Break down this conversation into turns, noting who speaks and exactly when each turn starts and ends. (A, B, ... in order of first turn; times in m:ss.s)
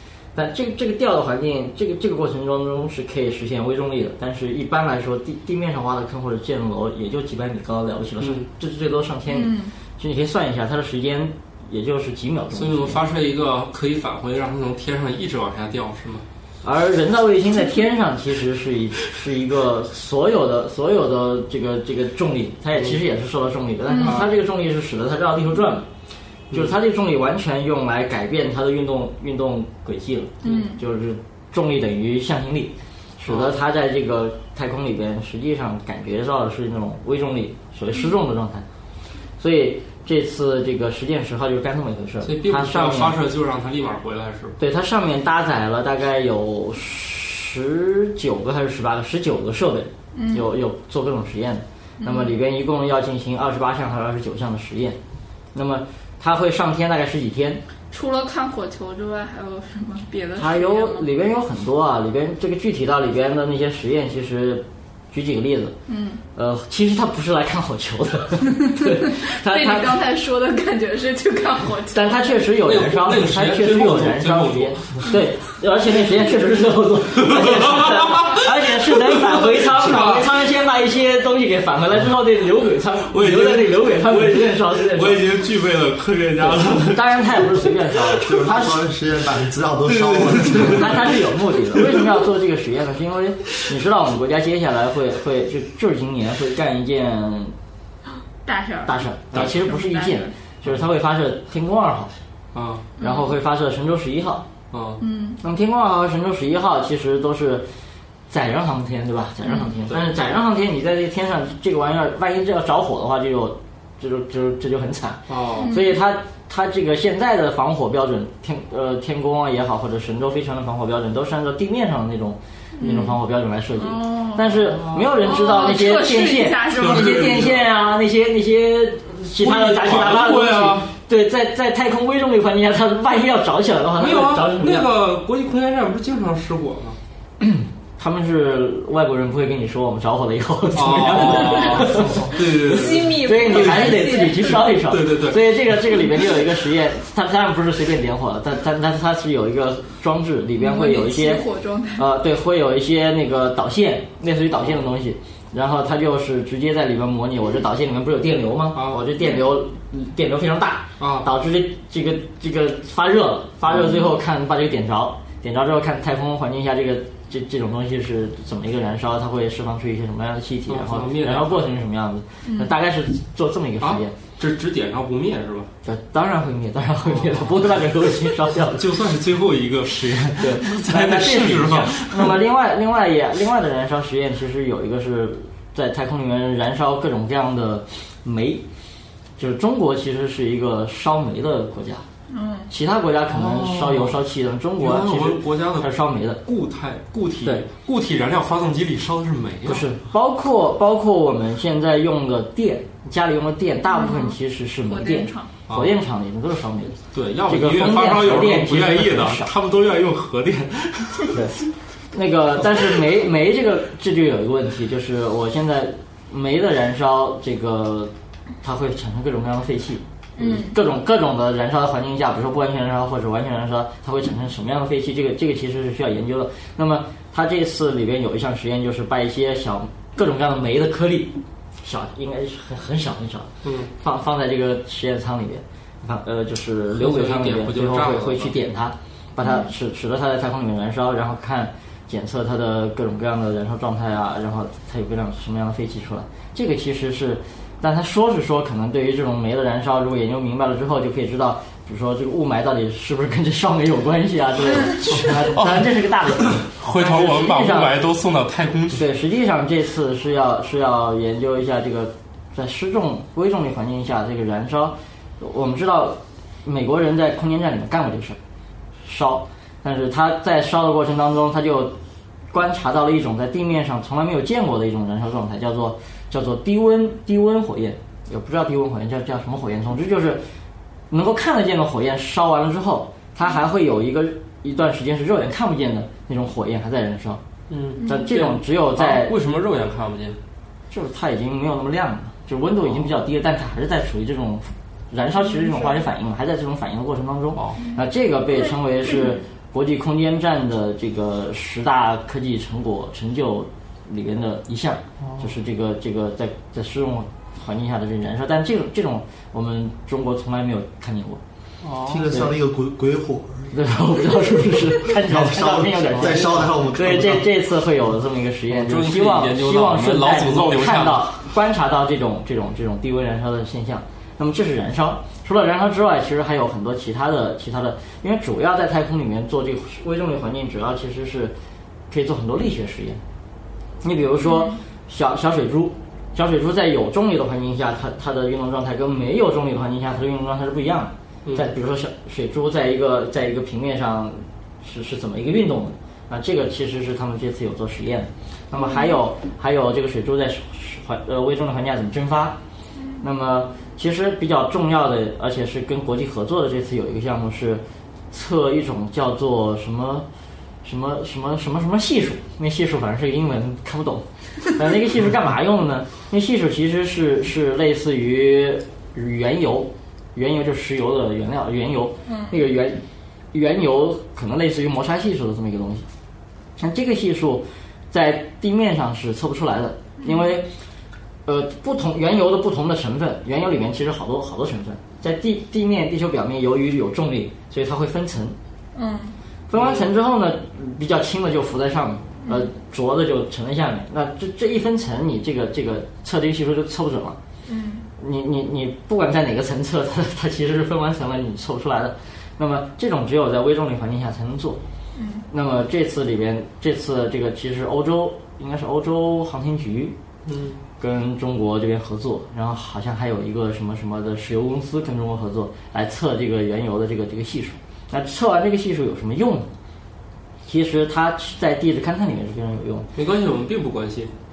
0:00.3-0:13.0 A
0:08.2-0:08.4 B
0:09.3-0:09.7 C
0:12.5-0:16.2 B
0:16.6-0:25.8 A
0:23.9-0:24.2 C
0:24.0-0:24.3 B
0:26.5-0:38.6 A
0:30.4-0:30.8 C
0:33.3-0:33.5 B
0:39.4-0:43.2 A
0:42.2-0:44.6 B
0:44.6-0:55.0 A
0:50.1-0:50.4 C
0:52.0-0:52.3 C
0:55.5-0:57.6 A
0:57.9-1:01.1 C
1:00.4-1:05.7 A
1:05.9-1:06.2 C
1:06.3-1:10.0 A
1:08.9-1:12.2 C
1:11.9-1:25.2 A
1:12.6-1:15.1 B
1:17.2-1:20.4 B
1:23.1-1:27.7 B
1:26.4-1:28.8 A
1:28.2-1:31.0 D
1:29.8-1:31.2 B
1:30.6-1:37.5 A
1:31.7-1:32.0 B
1:38.4-1:40.3 C
1:38.8-1:42.1 A
1:39.3-1:39.6 B
1:42.5-1:42.9 B
1:43.0-1:43.3 C
1:43.0-1:44.4 A
1:44.7-1:45.0 B
1:45.0-1:45.4 C
1:45.4-1:47.6 A
1:48.3-2:14.9 A
1:49.4-1:49.7 C
1:55.3-1:55.7 B
1:55.6-1:55.9 C
2:02.8-2:03.1 C
2:02.8-2:03.1 B
2:03.8-2:04.4 C
2:04.6-2:05.2 B
2:05.2-2:07.5 C
2:06.7-2:07.6 B
2:09.4-2:10.9 B
2:14.0-2:17.0 B
2:17.4-2:31.4 A
2:20.7-2:26.0 B
2:22.6-2:24.6 C
2:30.6-2:32.0 C
2:31.9-2:54.1 A
2:38.7-2:39.0 B
2:39.2-2:39.4 C
2:41.0-2:41.3 B
2:50.7-2:51.7 B
2:52.4-2:52.7 C
2:53.8-2:55.7 B
2:55.8-2:58.9 A
2:57.0-2:57.6 B
2:58.6-3:02.4 B
3:00.4-3:08.6 A
3:09.4-3:12.0 A
3:12.3-3:12.7 C
3:12.7-3:16.4 A
3:13.3-3:14.2 B
3:14.8-3:19.8 B
3:19.6-3:27.0 A
3:23.9-3:24.4 C
3:24.9-3:25.5 C
3:27.1-3:31.4 B
3:27.5-3:29.5 A
3:31.3-3:31.6 A
3:32.1-4:17.9 A
3:40.4-3:40.7 C
3:53.6-3:53.9 B
3:56.9-3:58.5 B
4:15.1-4:15.9 B
4:16.4-4:19.0 B
4:18.9-4:28.4 A
4:29.0-4:32.0 A
4:32.5-4:40.4 A
4:41.1-4:47.4 A
4:47.7-4:50.4 B
4:48.0-4:48.3 C
4:48.0-4:49.3 A
4:50.9-5:11.4 A
4:55.7-4:56.0 C
4:57.6-4:57.8 B
5:05.2-5:05.5 B
5:11.8-5:12.3 B
5:12.1-5:13.8 D
5:13.7-5:31.5 A
5:15.0-5:17.5 D
5:18.7-5:21.3 B
5:32.1-5:33.2 A
5:34.0-5:52.6 A
5:48.7-5:49.1 C
5:53.0-5:53.2 C
5:53.2-6:00.2 A
6:00.8-6:16.0 A
6:12.2-6:12.5 C
6:16.8-6:20.6 A
6:20.2-6:20.5 C
6:21.4-6:28.6 A
6:28.9-6:29.3 C
6:29.7-6:37.4 A
6:29.8-6:30.0 B
6:37.6-6:38.0 C
6:38.2-6:44.8 A
6:45.1-6:45.4 C
6:45.5-6:50.2 A
6:50.4-6:50.8 B
6:51.0-6:59.7 A
7:00.6-7:03.0 A
7:03.1-7:04.3 B